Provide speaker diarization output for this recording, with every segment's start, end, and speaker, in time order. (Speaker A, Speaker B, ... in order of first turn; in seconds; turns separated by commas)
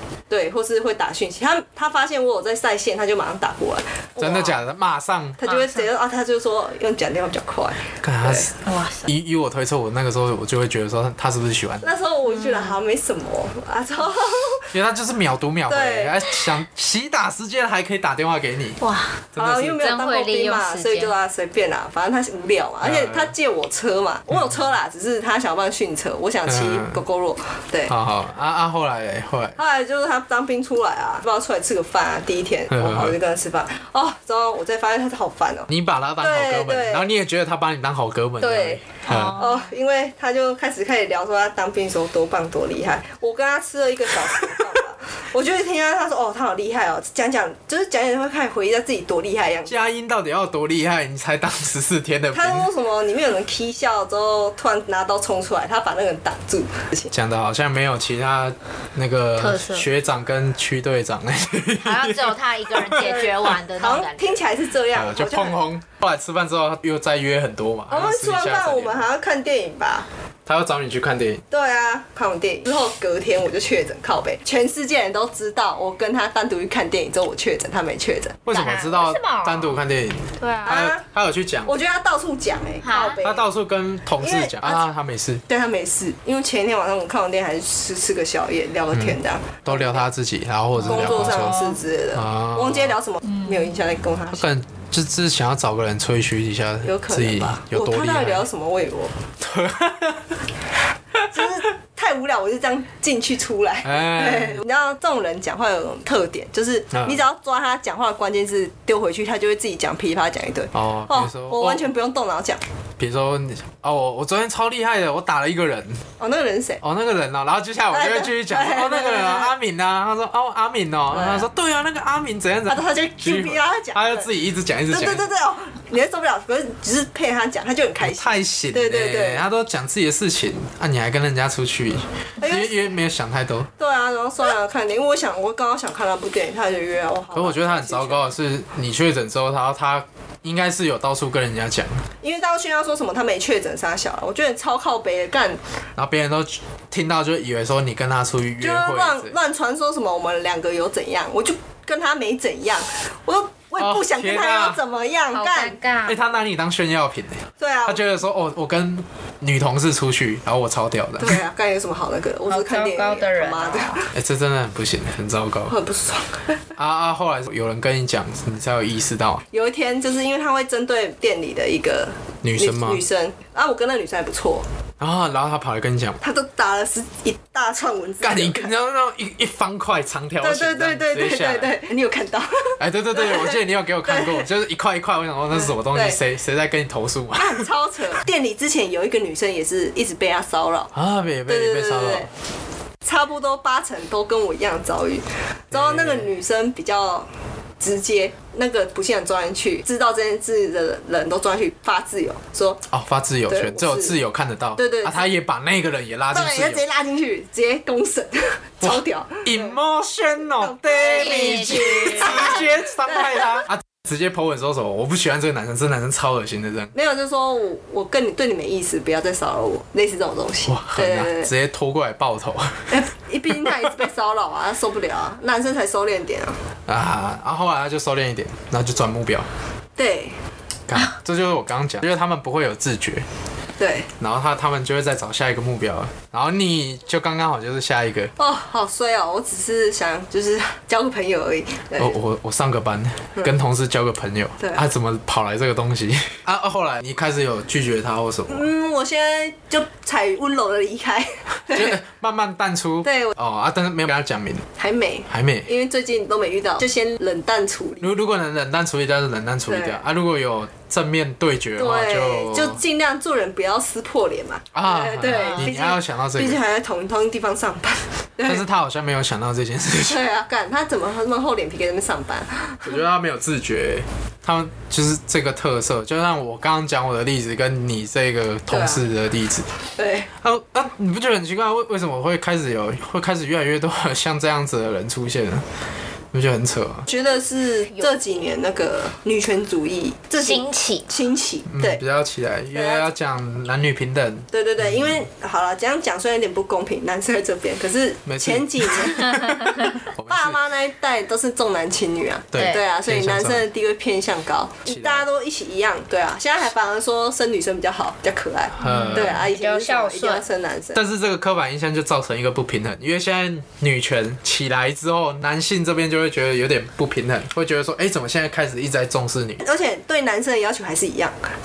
Speaker A: 0.3-4.6, Speaker B: 4.2-5.4, Speaker A: 5.4-8.5, Speaker C: 5.4-5.8, Speaker B: 8.0-8.5, Speaker C: 8.6-9.1, Speaker B: 9.0-11.9, Speaker A: 11.8-14.7, Speaker C: 12.3-12.7, Speaker B: 14.7-18.8, Speaker A: 15.7-16.2, Speaker C: 18.8-21.1, Speaker B: 19.3-19.8, Speaker A: 19.4-27.9, Speaker B: 22.8-23.3, Speaker B: 26.5-27.0, Speaker B: 27.9-29.6, Speaker A: 29.6-37.1, Speaker B: 32.7-33.1, Speaker B: 35.7-39.4, Speaker A: 38.4-49.7, Speaker C: 39.0-39.7, Speaker B: 49.7-52.7, Speaker A: 52.3-57.1, Speaker B: 57.1-63.1, Speaker C: 59.4-59.9, Speaker C: 61.8-64.4, Speaker A: 63.0-65.6, Speaker B: 64.9-69.0, Speaker A: 67.9-70.1, Speaker B: 70.5-71.4, Speaker A: 71.5-78.4, Speaker B: 78.5-81.7, Speaker C: 78.5-79.8, Speaker C: 80.4-80.9, Speaker A: 80.6-81.0, Speaker A: 81.6-83.5, Speaker C: 82.8-83.2, Speaker B: 83.2-85.4, Speaker A: 84.2-84.8, Speaker A: 85.5-90.0, Speaker B: 88.9-93.0, Speaker A: 90.8-94.5, Speaker C: 90.8-91.8, Speaker C: 93.3-93.7, Speaker B: 94.3-98.5, Speaker A: 96.8-99.1, Speaker B: 99.4-100.3, Speaker A: 101.3-112.6, Speaker B: 103.8-104.6, Speaker B: 106.9-107.2, Speaker B: 110.7-111.9, Speaker B: 113.0-116.0, Speaker A: 116.2-116.8, Speaker B: 116.8-125.3, Speaker A: 117.9-119.5, Speaker A: 121.1-121.5, Speaker A: 122.7-124.3, Speaker A: 124.9-129.4, Speaker B: 128.0-133.7, Speaker A: 132.4-132.9, Speaker A: 133.8-138.2, Speaker B: 137.3-142.1, Speaker A: 142.2-145.6, Speaker B: 145.9-149.3, Speaker A: 148.6-155.8, Speaker B: 153.8-154.8, Speaker C: 155.3-156.2, Speaker B: 156.1-161.4, Speaker A: 157.6-158.0, Speaker A: 161.2-164.1, Speaker C: 162.4-164.0, Speaker B: 164.1-165.7, Speaker A: 165.7-166.6, Speaker B: 166.8-169.4, Speaker A: 169.5-174.7, Speaker B: 172.4-173.0, Speaker B: 175.0-176.2, Speaker A: 176.2-178.7, Speaker B: 178.2-181.8, Speaker A: 180.4-184.4, Speaker B: 182.8-187.7, Speaker A: 185.5-186.2, Speaker A: 187.3-190.9, Speaker B: 190.9-192.3, Speaker A: 191.5-192.3, Speaker A: 193.0-197.3, Speaker B: 195.7-196.3, Speaker A: 197.8-202.8, Speaker B: 202.9-206.8, Speaker A: 203.5-204.2, Speaker A: 204.8-205.3, Speaker A: 206.3-209.7, Speaker B: 208.8-216.9, Speaker A: 210.5-213.6, Speaker C: 211.0-212.6, Speaker A: 216.9-221.5, Speaker B: 220.7-223.0, Speaker A: 222.9-226.6, Speaker B: 223.6-223.9, Speaker B: 226.9-229.5, Speaker A: 230.0-230.4, Speaker B: 230.9-233.2, Speaker A: 233.8-234.1, Speaker B: 234.2-238.3, Speaker A: 238.4-242.1, Speaker B: 241.9-248.7, Speaker A: 248.5-252.0, Speaker B: 251.7-254.7, Speaker A: 253.0-253.3, Speaker A: 254.8-258.1, Speaker B: 255.3-255.7, Speaker B: 258.0-262.8, Speaker A: 259.7-260.0, Speaker A: 261.8-268.6, Speaker B: 264.7-266.6, Speaker C: 265.2-265.6, Speaker B: 268.4-270.2, Speaker A: 270.1-273.0, Speaker B: 272.8-279.7, Speaker A: 278.7-279.0, Speaker A: 279.9-280.3, Speaker B: 280.4-285.6, Speaker B: 286.3-287.1, Speaker A: 287.1-292.0, Speaker C: 290.4-291.1, Speaker B: 291.7-295.2, Speaker A: 292.7-293.1, Speaker A: 294.5-299.6, Speaker B: 298.2-300.6, Speaker A: 300.3-311.0, Speaker B: 302.5-303.6, Speaker C: 302.5-302.8, Speaker B: 304.9-305.2, Speaker B: 308.8-309.4, Speaker C: 308.8-310.4, Speaker B: 310.9-319.6, Speaker A: 319.6-321.5